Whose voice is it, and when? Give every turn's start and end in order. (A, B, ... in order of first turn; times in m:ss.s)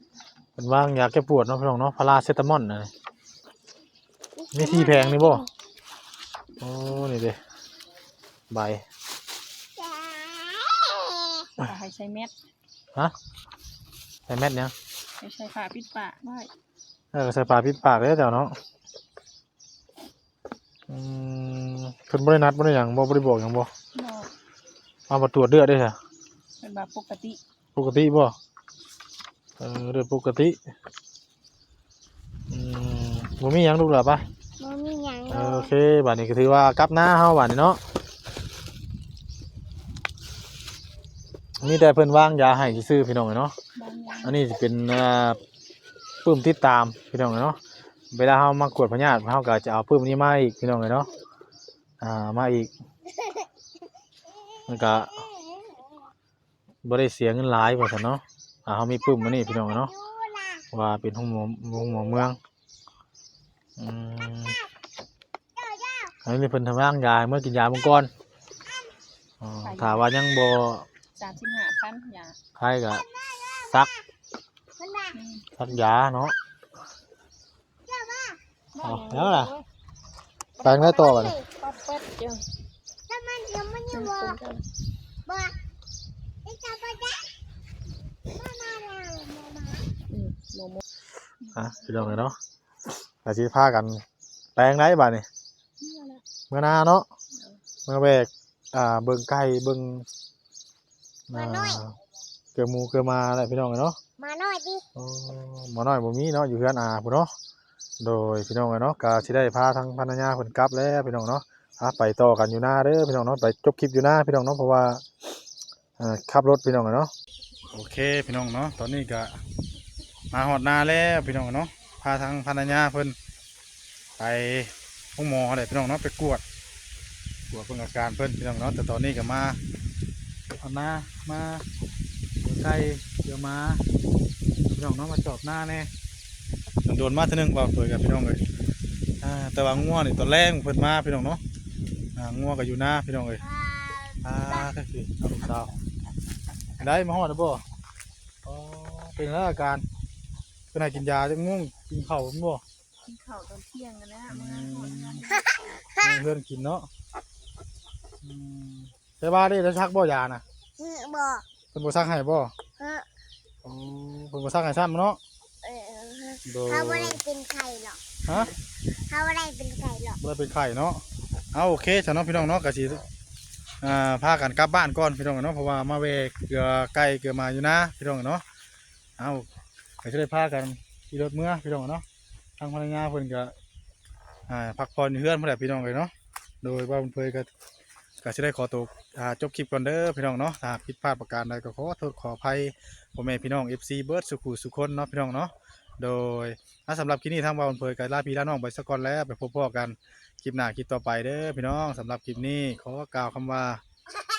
0:00.6-0:02.9 A
0:04.4-0:05.5 B
0:04.5-0:05.4 A
0:06.6-0:07.4 A
0:08.5-0:08.8 A
0:09.8-0:11.6 B
0:11.6-0:12.3 C
0:14.3-0:14.7 A
0:15.2-0:16.5 C
0:17.1-0:18.5 A
0:20.9-0:23.7 A
0:23.9-0:24.3 C
0:25.1-0:26.0 A
0:26.6-0:27.4 C
0:27.7-0:28.3 A
0:29.6-0:30.6 A
0:32.5-0:34.2 A
0:34.6-0:35.7 B
0:35.3-0:37.8 A
0:41.6-0:43.5 A
0:43.7-0:44.4 C
0:44.2-0:45.4 A
0:46.2-0:47.6 A
0:48.1-0:51.1 A
0:52.0-0:52.7 A
0:54.7-0:55.2 A
0:56.8-0:59.9 A
0:59.0-1:00.7 B
1:00.7-1:02.4 A
1:03.8-1:04.6 A
1:05.6-1:06.1 B
1:06.2-1:08.1 A
1:09.4-1:10.8 A
1:09.6-1:10.1 C
1:11.2-1:12.4 C
1:12.6-1:13.0 A
1:13.0-1:13.9 B
1:14.8-1:15.2 B
1:15.1-1:15.4 C
1:15.6-1:16.3 A
1:17.8-1:18.4 B
1:18.7-1:19.6 C
1:18.8-1:19.5 A
1:20.6-1:22.4 C
1:20.6-1:21.4 A
1:20.6-1:21.4 B
1:23.1-1:24.4 B
1:23.9-1:24.6 C
1:25.2-1:25.6 B
1:26.4-1:27.3 B
1:28.2-1:29.9 B
1:30.1-1:30.8 C
1:31.4-1:32.2 C
1:31.5-1:32.4 A
1:33.2-1:34.0 A
1:34.6-1:35.2 A
1:35.8-1:36.2 C
1:36.5-1:37.1 A
1:37.8-1:40.1 A
1:41.3-1:42.0 A
1:41.3-1:41.8 B
1:42.5-1:44.0 A
1:44.2-1:44.8 B
1:45.0-1:47.3 A
1:48.0-1:55.0 A
1:56.0-1:57.1 A
1:57.7-1:59.4 A
2:00.3-2:03.2 A
2:04.2-2:06.4 A
2:07.5-2:09.6 A
2:10.6-2:11.6 A
2:12.4-2:13.8 A
2:14.7-2:15.9 A
2:16.8-2:18.4 A
2:19.2-2:21.4 A
2:22.2-2:23.4 A
2:23.5-2:24.7 B
2:24.2-2:25.7 A
2:26.8-2:27.6 A
2:28.4-2:29.8 A
2:30.7-2:32.6 A
2:33.0-2:35.9 C
2:34.3-2:35.2 A
2:35.3-2:35.6 B
2:35.9-2:36.9 A
2:38.2-2:40.4 A
2:40.8-2:41.4 B
2:41.7-2:42.5 A
2:42.8-2:43.1 B
2:43.6-2:45.2 A
2:45.6-2:48.0 B
2:46.4-2:47.2 A
2:48.2-2:48.5 A
2:49.1-2:50.2 B
2:50.2-2:53.0 A
2:53.8-2:58.4 A
2:59.2-2:59.5 A
3:00.0-3:02.0 A
3:02.6-3:03.5 A
3:04.5-3:07.5 A
3:08.2-3:23.8 A